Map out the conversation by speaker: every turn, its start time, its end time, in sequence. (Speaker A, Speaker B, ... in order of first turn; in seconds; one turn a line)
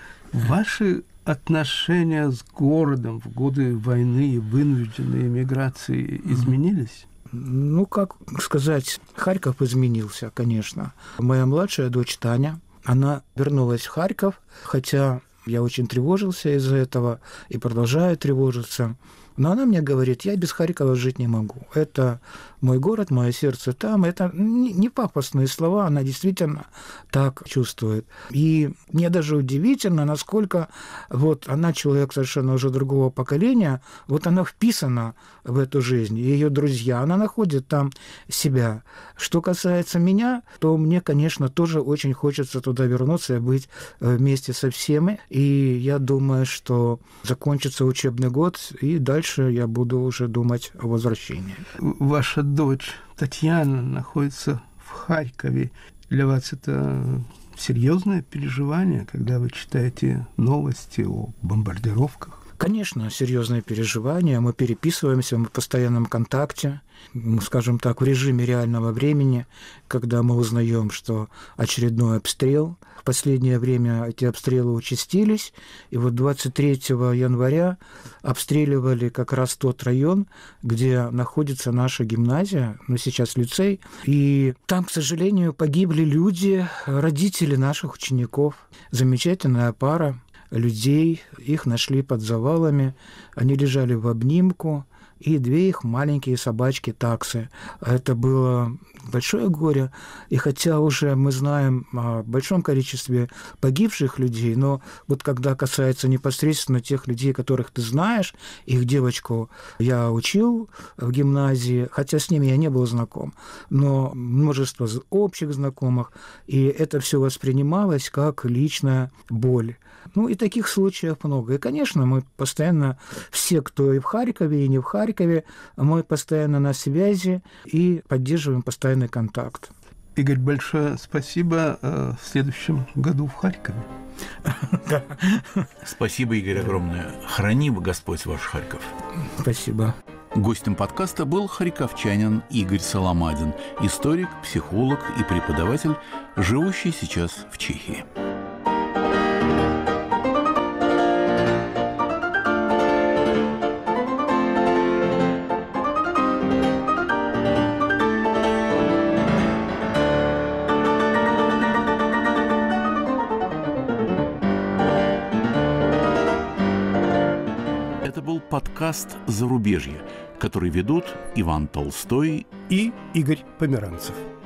Speaker A: 0.3-7.0
Speaker B: 7.3-51.7
Speaker A: 51.8-62.4
Speaker B: 62.6-129.7
Speaker A: 130.2-133.9
Speaker B: 134.4-135.7
Speaker C: 135.8-139.0
Speaker B: 139.2-140.0
Speaker C: 140.3-148.1
Speaker C: 168.0-172.5
Speaker A: 172.7-174.2